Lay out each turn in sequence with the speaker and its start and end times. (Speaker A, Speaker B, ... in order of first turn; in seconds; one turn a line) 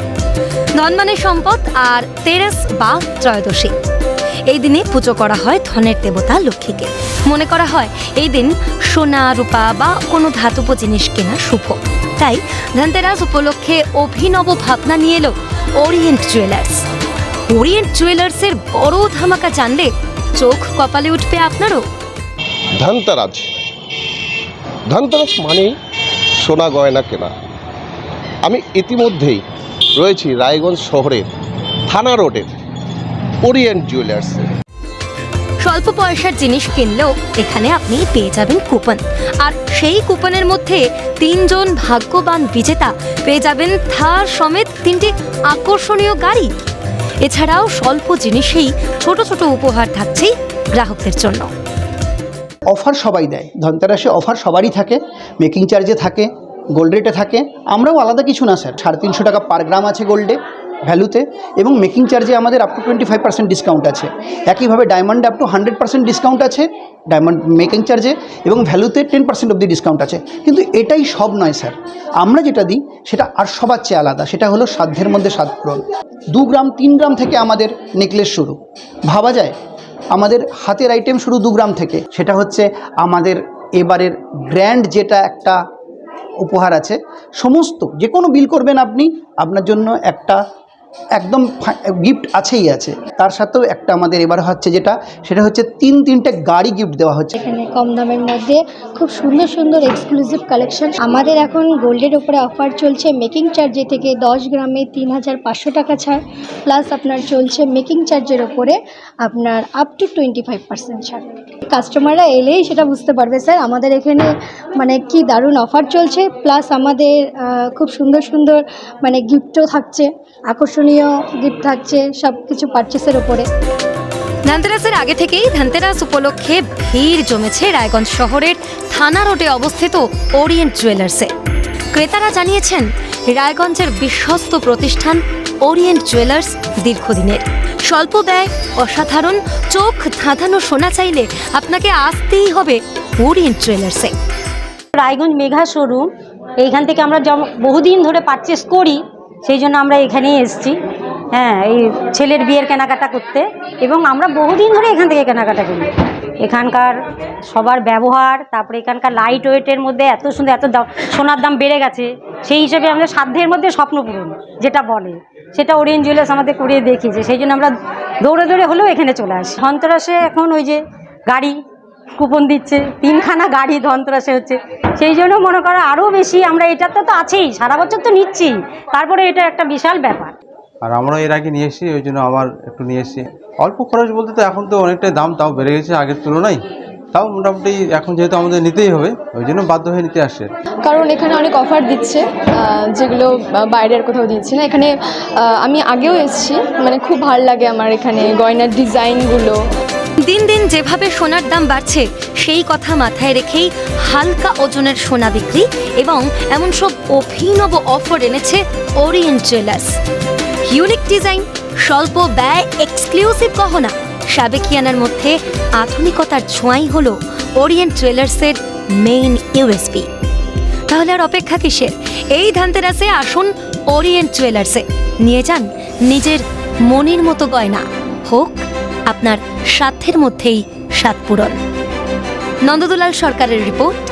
Speaker A: 0.8-3.7
Speaker A: 4.5-16.8
Speaker A: 17.5-21.8
Speaker B: 22.8-23.4
Speaker B: 24.9-25.7
Speaker B: 26.4-27.3
Speaker B: 28.4-29.4
Speaker B: 30.0-31.3
Speaker B: 31.9-32.5
Speaker B: 33.4-34.5
Speaker A: 35.6-46.5
Speaker A: 47.2-51.5
Speaker C: 52.7-79.5
Speaker C: 80.1-85.6
Speaker C: 86.4-90.4
Speaker C: 91.2-97.3
Speaker D: 97.3-123.5
Speaker A: 124.5-131.3
Speaker A: 131.9-144.1
Speaker E: 144.9-146.1
Speaker E: 146.6-150.8
Speaker E: 151.3-156.9
Speaker E: 157.5-171.6
Speaker E: 172.2-180.3
Speaker F: 180.8-186.6
Speaker F: 187.1-190.5
Speaker G: 190.8-199.6
Speaker A: 200.2-209.9
Speaker A: 210.7-220.1
Speaker A: 220.9-231.6
Speaker A: 232.6-233.9